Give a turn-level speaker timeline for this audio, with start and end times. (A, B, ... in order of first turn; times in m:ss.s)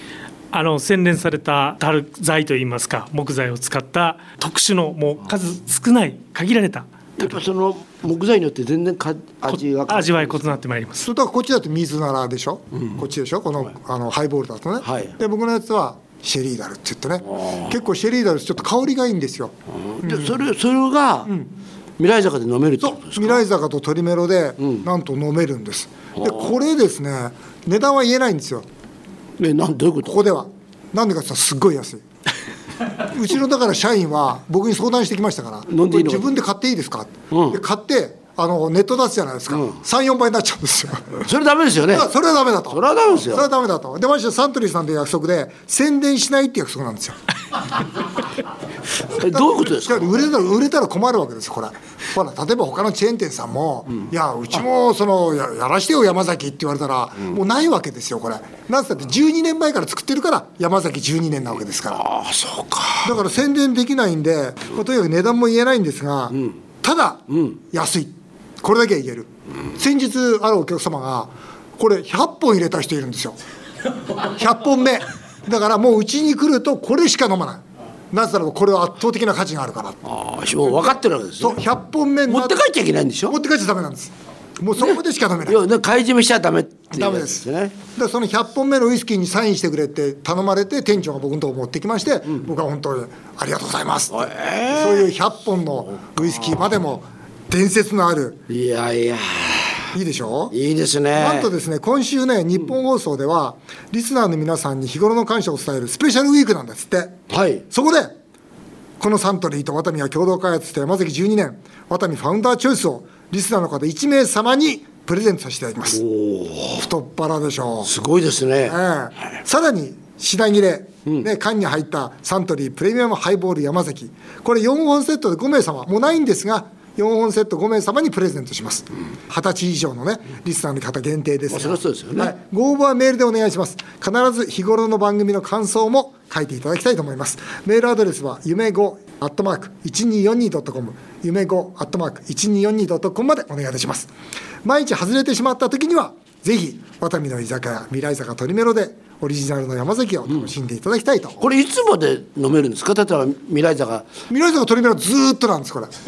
0:00.5-0:07.2 A
0:07.2-0:10.5 B
0:09.9-0:11.0 A
0:11.0-0:20.4 C
0:14.8-0:15.1 B
0:19.8-0:21.3 B
0:22.0-0:23.4 B
0:22.8-0:28.6 C
0:26.2-0:26.5 B
0:29.4-0:30.2 B
0:30.0-0:32.0 C
0:33.0-0:41.2 C
0:35.7-0:36.3 B
0:37.3-0:37.6 B
0:41.2-0:42.1 B
0:41.9-0:47.2 C
0:42.7-0:43.5 B
0:49.1-0:50.1 B
0:49.2-1:02.0 C
1:01.9-1:03.2 B
1:03.0-1:13.4 C
1:14.2-1:20.0 C
1:20.0-1:21.6 B
1:21.4-1:22.6 C
1:22.3-1:23.4 B
1:23.3-1:25.6 C
1:24.8-1:27.8 B
1:26.9-1:38.4 C
1:34.1-1:35.1 B
1:38.5-1:39.9 B
1:39.9-1:40.5 C
1:40.5-1:41.5 B
1:41.1-1:47.2 C
1:47.3-1:47.6 B
1:47.7-1:48.1 C
1:49.0-1:56.0 C
1:55.9-1:56.8 B
1:56.7-1:57.9 C
1:57.8-1:58.8 B
1:58.6-2:24.1 C
2:11.5-2:12.3 B
2:24.6-2:31.4 C
2:31.4-2:34.1 B
2:34.3-2:35.9 C